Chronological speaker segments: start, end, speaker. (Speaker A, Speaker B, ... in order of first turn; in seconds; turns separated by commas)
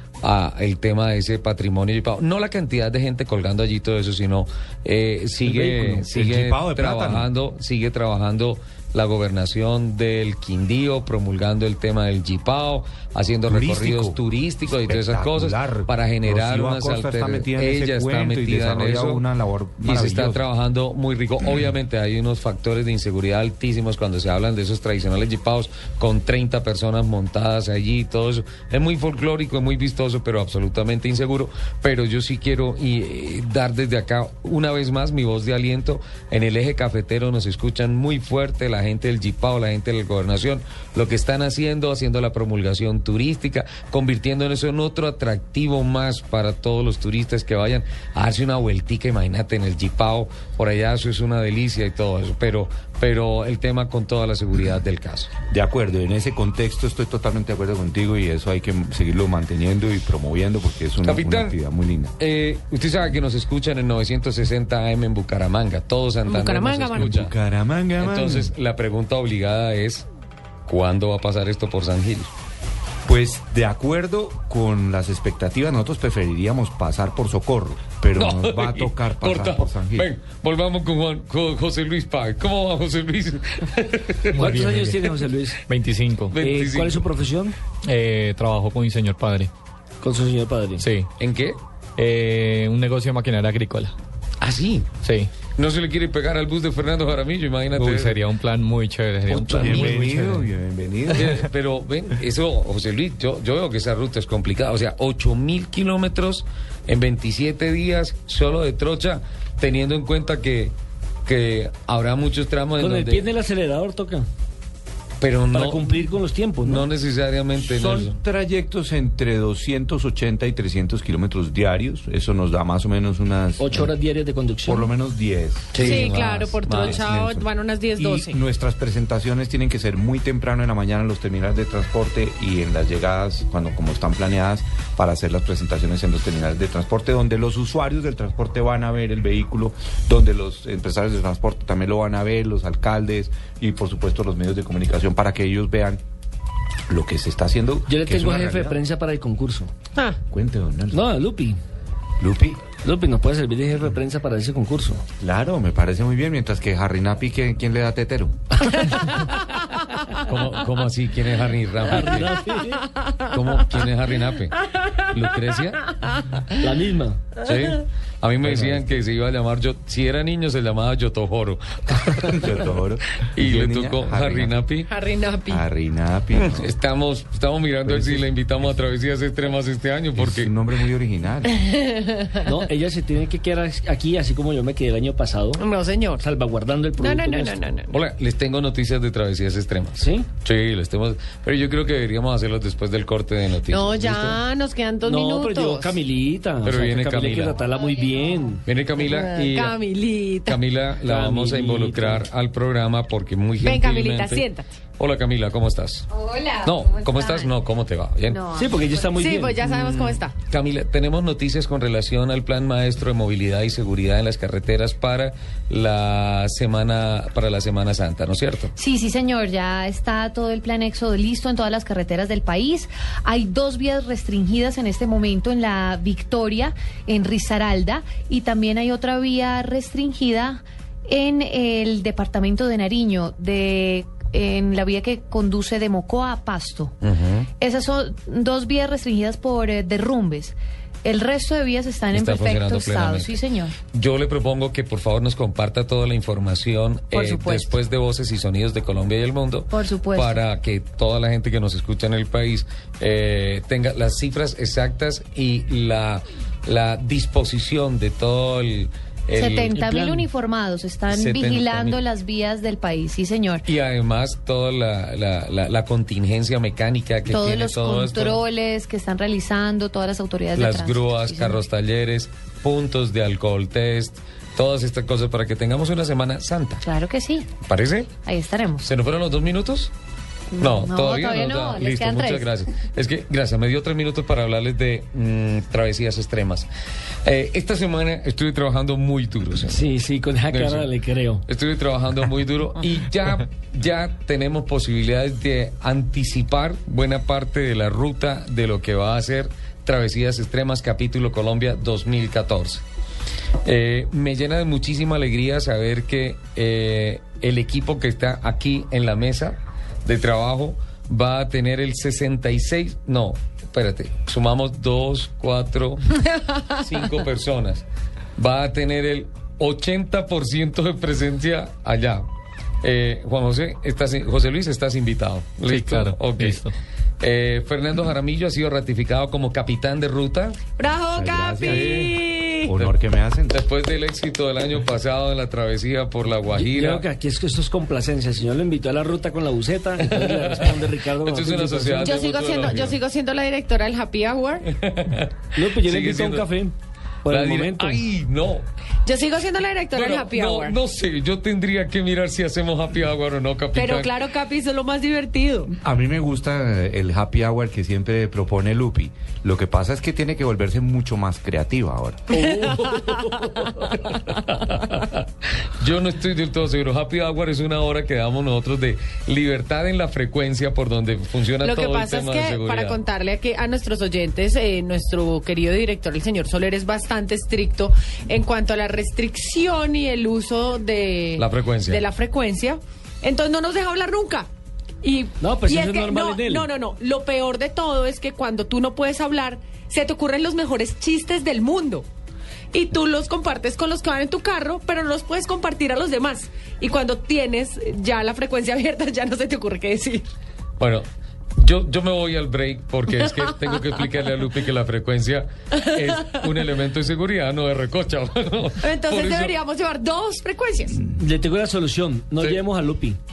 Speaker A: 0.2-19.2, Speaker B: 5.4-7.3, Speaker B: 13.5-20.4, Speaker A: 19.8-55.3, Speaker B: 55.5-62.1, Speaker A: 61.0-61.6, Speaker A: 62.2-67.3, Speaker C: 66.2-67.1, Speaker B: 66.9-68.5, Speaker A: 68.0-70.1, Speaker A: 70.7-72.3, Speaker B: 73.0-80.1, Speaker A: 78.1-84.4, Speaker D: 84.3-85.1, Speaker E: 84.4-85.6, Speaker D: 85.7-86.4, Speaker A: 86.3-87.1, Speaker E: 86.4-87.5, Speaker D: 87.8-89.5, Speaker E: 90.0-90.8, Speaker D: 90.8-91.1, Speaker A: 91.2-91.6, Speaker D: 92.0-93.9, Speaker A: 94.4-94.9, Speaker D: 95.0-95.3, Speaker A: 95.5-98.2, Speaker D: 97.7-100.5, Speaker A: 99.3-100.1, Speaker B: 99.3-101.3, Speaker A: 101.1-110.7, Speaker A: 111.2-113.2, Speaker E: 112.8-114.2, Speaker A: 115.2-116.0, Speaker E: 115.5-116.9, Speaker A: 116.6-118.2, Speaker B: 117.6-123.9, Speaker E: 123.6-124.9, Speaker B: 124.7-146.0, Speaker A: 125.7-127.1, Speaker C: 125.8-128.4, Speaker B: 146.9-148.8, Speaker E: 147.9-149.7, Speaker B: 150.3-151.0, Speaker E: 150.9-151.6, Speaker B: 152.2-152.6, Speaker E: 152.8-155.0, Speaker B: 155.2-158.4, Speaker C: 158.8-159.6, Speaker A: 160.1-162.4, Speaker E: 161.9-162.9, Speaker A: 163.2-165.9, Speaker E: 166.6-167.3, Speaker A: 167.3-172.5, Speaker B: 168.4-168.8, Speaker B: 172.2-174.5, Speaker A: 173.2-174.9, Speaker C: 174.9-175.6, Speaker B: 175.5-176.7, Speaker A: 176.4-180.5, Speaker B: 177.8-178.7, Speaker B: 180.2-181.7, Speaker C: 181.6-182.6, Speaker E: 182.4-185.6, Speaker C: 185.6-186.2, Speaker E: 186.2-187.6, Speaker C: 187.0-187.9, Speaker A: 187.9-194.4, Speaker E: 190.0-190.3, Speaker C: 193.7-196.0, Speaker E: 195.0-198.6, Speaker A: 196.6-197.6, Speaker F: 197.6-198.3, Speaker A: 198.6-199.8, Speaker C: 199.0-200.6, Speaker A: 200.4-204.4, Speaker E: 201.0-202.2, Speaker C: 203.6-204.6, Speaker A: 205.0-206.1, Speaker F: 206.1-207.5, Speaker A: 206.6-208.4, Speaker F: 208.2-209.2, Speaker E: 208.5-209.6, Speaker C: 209.1-210.3, Speaker A: 209.6-218.7, Speaker F: 218.8-236.9, Speaker A: 237.0-237.5, Speaker F: 237.6-243.7, Speaker A: 242.1-259.8, Speaker F: 247.1-247.7, Speaker F: 249.7-250.4, Speaker F: 259.3-263.6, Speaker E: 259.7-260.3, Speaker A: 261.1-262.0, Speaker A: 263.6-268.4, Speaker F: 267.3-271.6, Speaker A: 270.5-276.9, Speaker F: 276.8-277.5, Speaker A: 277.6-278.1, Speaker F: 278.2-278.8, Speaker A: 278.8-279.9, Speaker F: 280.5-282.4, Speaker A: 280.6-286.7, Speaker A: 287.2-289.8, Speaker E: 289.6-291.4, Speaker A: 290.5-290.9, Speaker A: 291.5-302.8, Speaker A: 303.6-317.8, Speaker A: 318.4-322.2, Speaker A: 322.8-326.7, Speaker D: 325.7-326.7, Speaker A: 327.2-330.6, Speaker C: 330.8-332.7, Speaker B: 331.1-332.0, Speaker A: 331.6-332.1, Speaker B: 332.6-333.6, Speaker A: 333.5-337.0, Speaker E: 336.5-342.3, Speaker A: 340.0-343.0, Speaker C: 342.0-344.7, Speaker A: 344.6-346.5, Speaker E: 345.5-348.0, Speaker A: 347.3-348.6, Speaker C: 349.0-350.8, Speaker A: 349.9-354.1, Speaker C: 353.7-355.7, Speaker B: 355.8-362.4, Speaker A: 362.4-365.2, Speaker C: 362.6-363.1, Speaker A: 365.8-373.0, Speaker C: 371.6-384.5, Speaker A: 381.4-382.0, Speaker C: 385.0-392.1, Speaker E: 385.4-386.7, Speaker C: 392.7-400.2, Speaker A: 400.8-409.5, Speaker C: 408.8-411.0, Speaker E: 411.1-413.2, Speaker A: 412.4-412.6